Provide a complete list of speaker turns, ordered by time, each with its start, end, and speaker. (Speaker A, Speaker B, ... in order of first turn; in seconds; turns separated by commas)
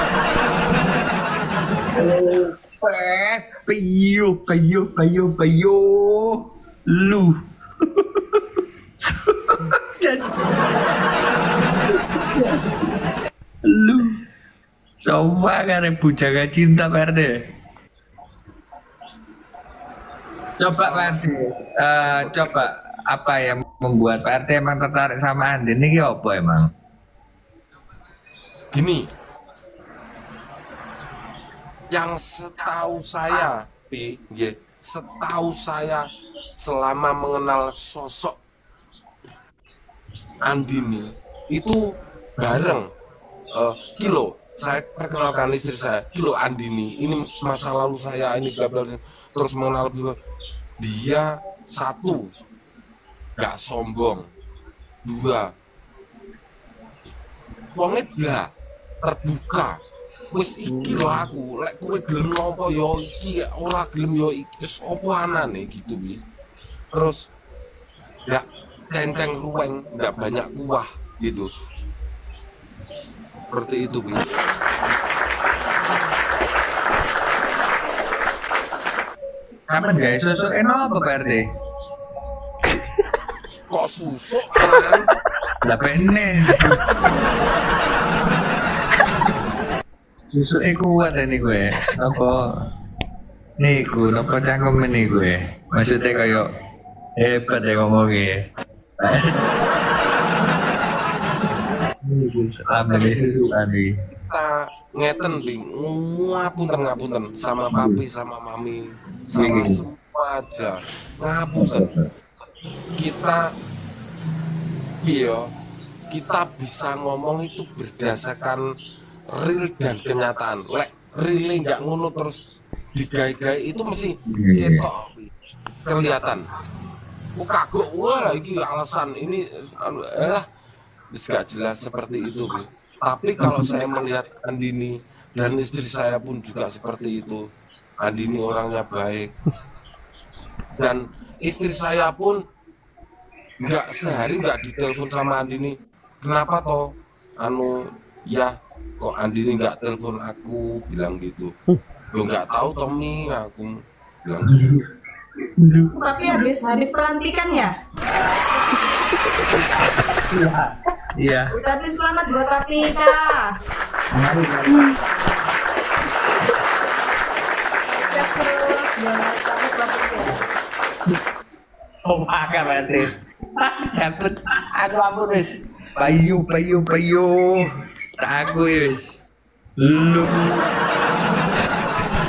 Speaker A: 1.9-8.4, Speaker A: 9.2-10.3, Speaker A: 12.2-12.6, Speaker A: 13.6-14.2, Speaker A: 15.0-17.3, Speaker A: 20.6-26.7, Speaker B: 20.8-21.2, Speaker B: 22.2-22.6, Speaker B: 28.7-29.1, Speaker B: 31.9-36.0, Speaker B: 36.6-38.4, Speaker B: 40.4-41.8, Speaker B: 42.4-42.9, Speaker B: 43.5-50.1, Speaker B: 50.8-52.3, Speaker B: 53.4-54.2, Speaker B: 55.0-55.4, Speaker B: 57.7-58.5, Speaker B: 59.0-59.8, Speaker B: 60.3-66.2, Speaker A: 60.6-61.3, Speaker B: 66.9-67.2, Speaker B: 68.3-71.5, Speaker B: 73.5-74.2, Speaker A: 79.7-81.4, Speaker B: 83.7-85.1, Speaker A: 85.6-86.8, Speaker A: 90.3-92.5, Speaker A: 93.6-96.5, Speaker A: 97.2-98.4, Speaker A: 99.0-99.4, Speaker A: 102.0-104.0, Speaker B: 102.8-103.5, Speaker B: 104.1-111.9, Speaker A: 109.3-109.8, Speaker A: 111.5-112.1, Speaker B: 113.0-113.4, Speaker B: 115.0-115.4, Speaker B: 116.1-118.6, Speaker B: 119.3-122.3, Speaker B: 122.9-125.3, Speaker A: 124.2-124.9, Speaker B: 125.8-126.4, Speaker B: 127.3-130.4, Speaker B: 131.1-137.4, Speaker B: 138.0-139.3, Speaker B: 140.8-142.4, Speaker B: 143.6-146.8, Speaker B: 147.4-147.7, Speaker B: 148.3-151.5, Speaker B: 152.1-153.7, Speaker B: 154.2-154.6, Speaker A: 154.5-154.8, Speaker A: 155.6-155.9, Speaker C: 155.9-157.7, Speaker A: 160.3-161.5, Speaker C: 161.5-163.5, Speaker A: 164.1-164.9, Speaker C: 164.7-164.9, Speaker C: 167.9-170.4, Speaker A: 172.0-177.7, Speaker A: 178.2-179.2, Speaker A: 179.8-180.6